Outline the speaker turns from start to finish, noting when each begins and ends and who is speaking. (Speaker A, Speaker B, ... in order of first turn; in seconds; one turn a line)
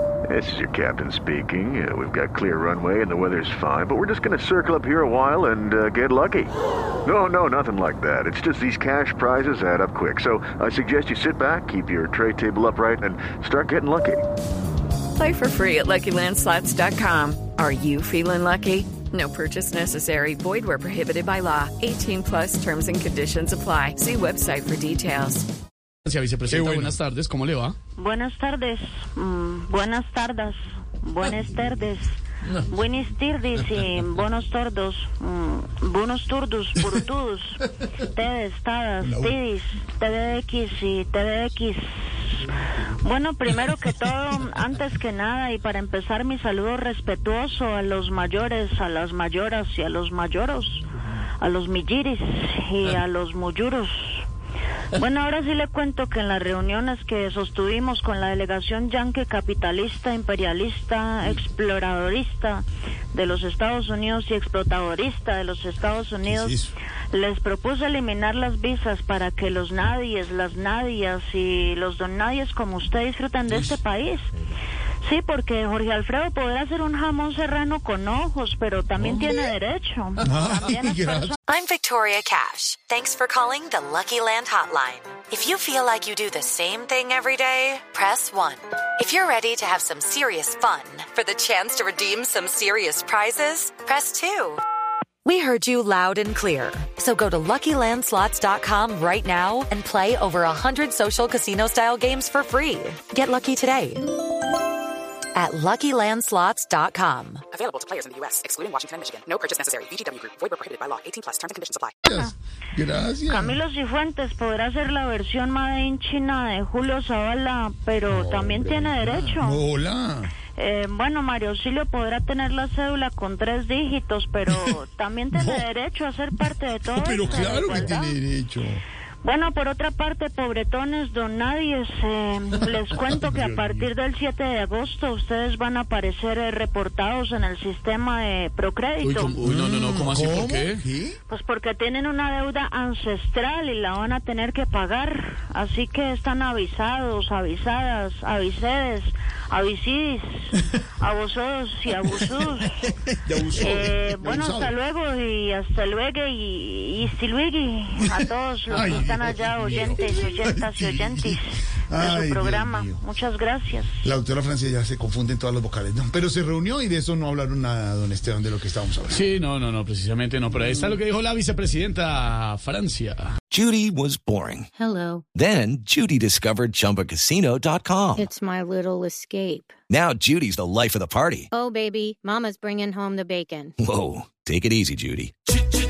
Speaker A: 0.3-6.5
Speaker A: 7.0-14.2
Speaker B: 15.2-25.4
Speaker C: 26.1-27.8
Speaker D: 26.5-26.9
Speaker E: 28.0-42.5
Speaker D: 39.0-39.4
Speaker E: 43.0-50.9
Speaker E: 51.4-54.3
Speaker E: 54.9-66.6
Speaker D: 66.2-66.7
Speaker E: 67.1-74.3
Speaker E: 75.0-81.4
Speaker D: 79.0-79.4
Speaker D: 80.2-81.3
Speaker F: 81.5-94.6
Speaker F: 95.2-104.0
Speaker F: 105.3-107.5
Speaker G: 107.5-111.9
Speaker D: 112.0-113.6
Speaker E: 113.3-119.7
Speaker D: 118.1-120.3
Speaker E: 120.6-128.2
Speaker D: 125.3-125.7
Speaker D: 126.9-128.8
Speaker E: 129.2-139.4
Speaker D: 132.7-133.9
Speaker C: 139.0-140.8
Speaker D: 139.4-141.2
Speaker E: 141.3-152.9
Speaker D: 152.2-154.8
Speaker E: 153.5-163.9
Speaker D: 158.1-163.0
Speaker D: 164.0-169.3
Speaker C: 169.1-173.2
Speaker H: 173.5-174.7
Speaker I: 174.8-175.2
Speaker H: 175.3-178.3
Speaker I: 178.1-179.7
Speaker H: 179.9-181.5
Speaker I: 181.5-183.7
Speaker H: 183.8-185.3